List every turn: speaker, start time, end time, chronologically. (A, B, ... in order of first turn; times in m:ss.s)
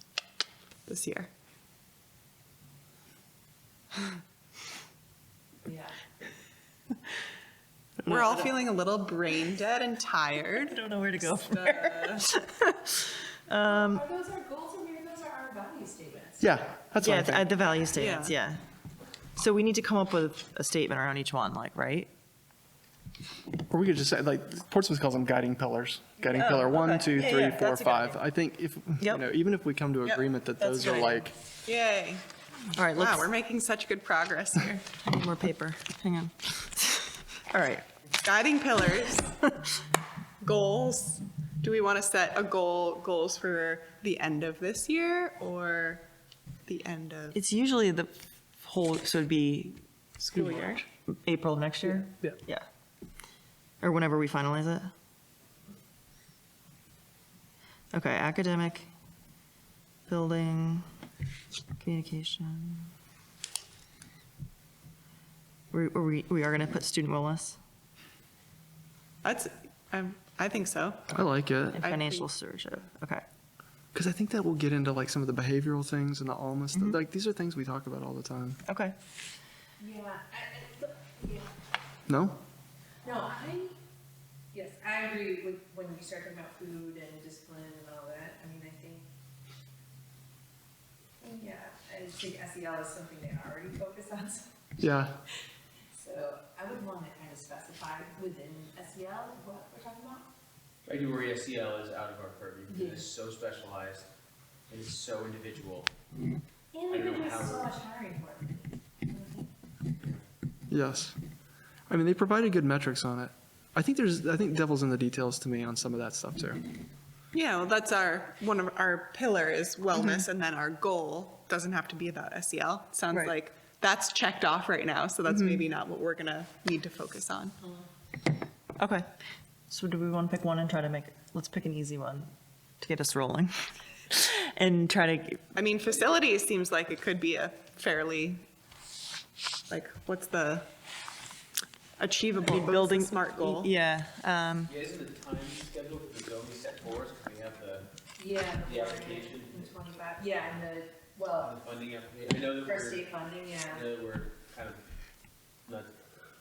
0:00.9-0:01.3 A
0:05.6-0:06.0 B
0:08.0-0:12.3 A
0:08.1-0:08.5 C
0:10.6-0:14.0 C
0:13.6-0:16.4 B
0:16.4-0:17.5 D
0:17.0-0:18.6 C
0:17.9-0:18.4 A
0:19.4-0:22.1 C
0:23.7-0:31.3 D
0:26.3-0:28.2 C
0:30.6-0:31.3 C
0:31.6-0:32.2 A
0:32.7-0:33.3 C
0:32.9-0:35.0 A
0:35.0-0:37.9 C
0:38.1-0:39.5 A
0:40.4-0:46.0 A
0:46.7-0:47.4 A
0:47.3-0:49.8 C
0:50.2-0:50.8 A
0:50.4-0:52.7 C
0:53.8-0:54.9 C
0:57.9-0:58.9 C
1:00.1-1:00.9 C
1:01.8-1:02.9 C
1:05.7-1:07.6 C
1:09.2-1:11.1 A
1:11.1-1:11.8 D
1:11.7-1:13.2 C
1:11.8-1:12.2 A
1:13.9-1:18.6 D
1:18.7-1:19.0 C
1:19.8-1:21.5 B
1:22.1-1:22.4 D
1:23.0-1:23.8 B
1:24.5-1:29.1 B
1:31.2-1:34.5 B
1:34.8-1:35.2 D
1:36.0-1:40.3 B
1:40.8-1:44.1 E
1:42.7-1:43.1 B
1:44.7-1:45.9 E
1:46.7-1:49.5 B
1:46.9-1:47.7 E
1:50.7-1:51.2 D
1:51.9-1:56.6 D
1:57.3-2:07.6 A
2:00.0-2:00.2 C
2:05.3-2:05.6 C
2:08.8-2:09.1 C
2:09.7-2:15.4 C
2:15.6-2:18.4 A
2:19.7-2:20.7 A
2:22.0-2:23.7 A
2:22.4-2:24.7 C
2:24.7-2:27.9 E
2:28.2-2:31.6 B
2:28.6-2:29.7 E
2:31.4-2:33.1 E
2:32.6-2:33.9 B
2:33.7-2:34.8 E
2:35.7-2:35.9 E